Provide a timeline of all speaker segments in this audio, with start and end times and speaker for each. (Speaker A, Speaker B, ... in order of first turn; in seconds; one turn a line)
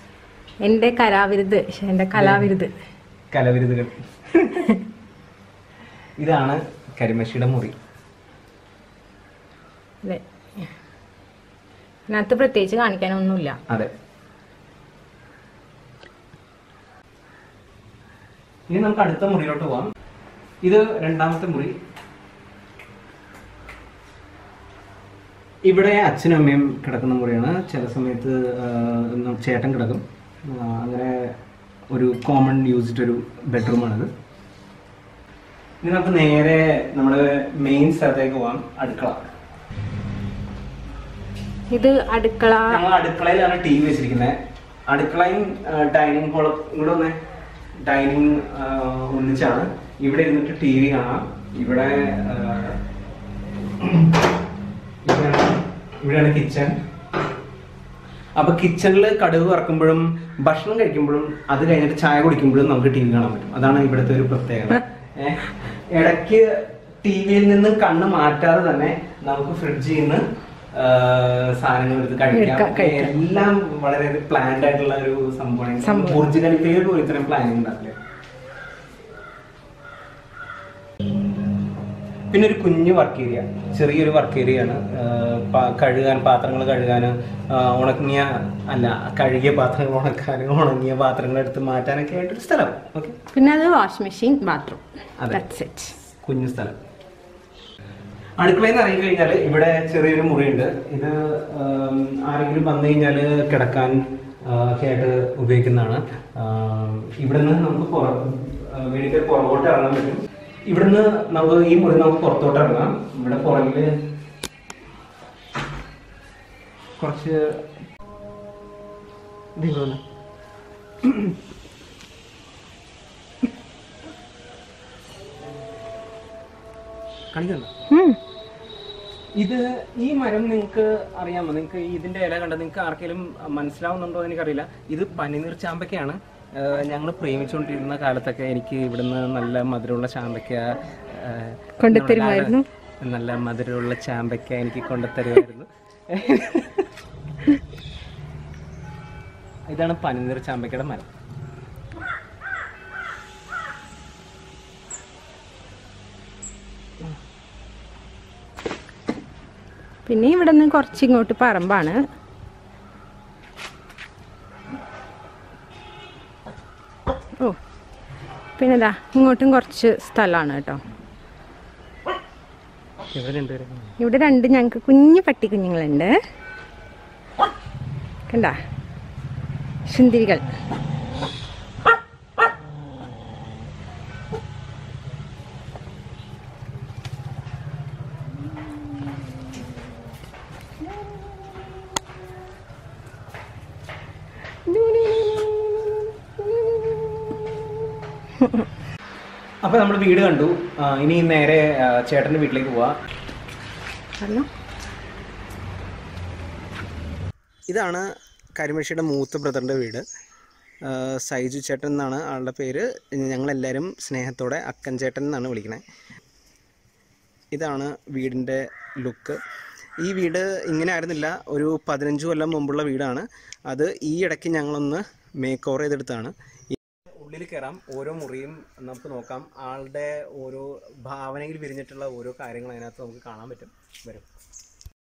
Speaker A: 0.6-2.7
Speaker B: 2.2-2.5
Speaker B: 3.3-4.8
Speaker B: 6.2-7.8
Speaker A: 10.0-10.7
Speaker A: 12.1-13.6
Speaker B: 18.7-19.9
Speaker B: 20.6-21.8
Speaker B: 25.7-31.4
Speaker B: 31.9-34.1
Speaker B: 35.8-39.2
Speaker A: 41.7-42.8
Speaker B: 42.7-47.2
Speaker B: 47.9-52.8
Speaker B: 53.8-54.3
Speaker B: 55.0-56.8
Speaker B: 58.4-70.2
Speaker B: 70.7-78.0
Speaker A: 72.3-73.2
Speaker A: 75.8-76.2
Speaker B: 82.3-93.2
Speaker A: 93.3-96.0
Speaker B: 96.2-96.8
Speaker B: 98.4-113.9
Speaker B: 117.0-117.6
Speaker B: 119.6-120.0
Speaker B: 121.0-121.3
Speaker B: 127.3-127.7
Speaker A: 127.9-128.2
Speaker B: 129.4-146.9
Speaker A: 141.8-142.6
Speaker B: 149.7-151.1
Speaker A: 160.1-162.0
Speaker A: 168.6-170.8
Speaker B: 173.1-173.9
Speaker A: 174.0-176.2
Speaker A: 178.3-178.6
Speaker A: 179.9-180.4
Speaker A: 194.8-195.6
Speaker B: 199.6-203.0
Speaker A: 204.2-204.5
Speaker B: 207.7-208.1
Speaker B: 208.6-210.0
Speaker B: 210.8-215.8
Speaker B: 217.5-219.4
Speaker B: 220.0-234.3